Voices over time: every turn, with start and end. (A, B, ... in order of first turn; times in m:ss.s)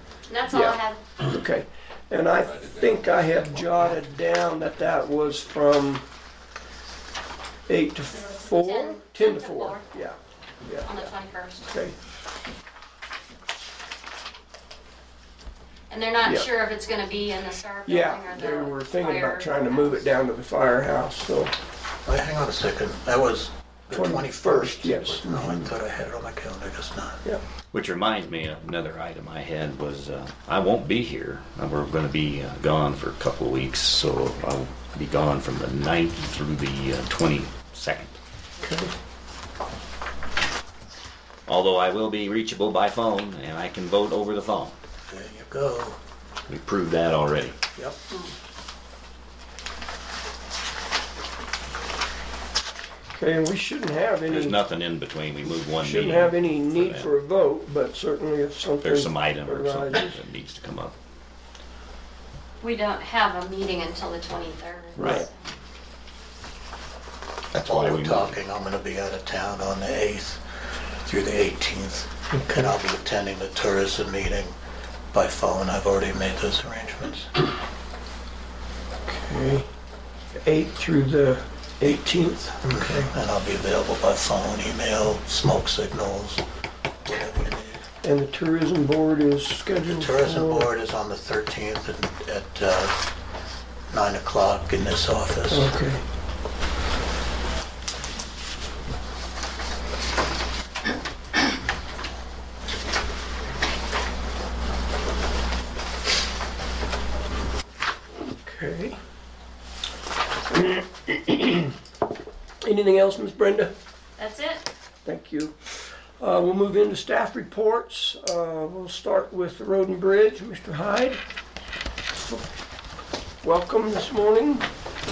0:00.3-0:01.0 A
0:00.5-0:06.0 B
0:07.7-0:11.1 B
0:08.3-0:09.9 A
0:10.8-0:11.7 A
0:11.6-0:12.0 B
0:15.9-0:20.0 A
0:16.2-0:16.5 B
0:17.8-0:21.5 B
0:22.1-0:27.2 C
0:23.9-0:25.7 B
0:27.7-0:38.2 D
0:38.6-0:38.9 B
0:41.5-0:44.8 D
0:45.1-0:46.0 C
0:46.5-0:47.6 D
0:53.1-0:54.6 B
0:54.3-0:57.1 D
0:55.8-1:00.2 B
0:58.8-1:01.0 D
1:02.6-1:05.3 A
1:05.0-1:05.2 D
1:05.0-1:05.3 B
1:07.5-1:08.4 D
1:07.6-1:10.4 C
1:10.9-1:14.6 C
1:15.1-1:17.3 C
1:19.1-1:19.7 B
1:20.4-1:23.1 B
1:22.6-1:26.4 C
1:27.0-1:27.8 C
1:28.0-1:30.7 B
1:29.8-1:33.0 C
1:33.9-1:35.7 C
1:35.5-1:36.0 B
1:48.4-1:49.0 B
1:50.5-1:51.7 B
1:52.6-1:53.7 B
1:54.2-1:54.7 A
1:55.0-1:55.6 B
1:56.2-2:01.2 B
2:03.4-2:04.7 B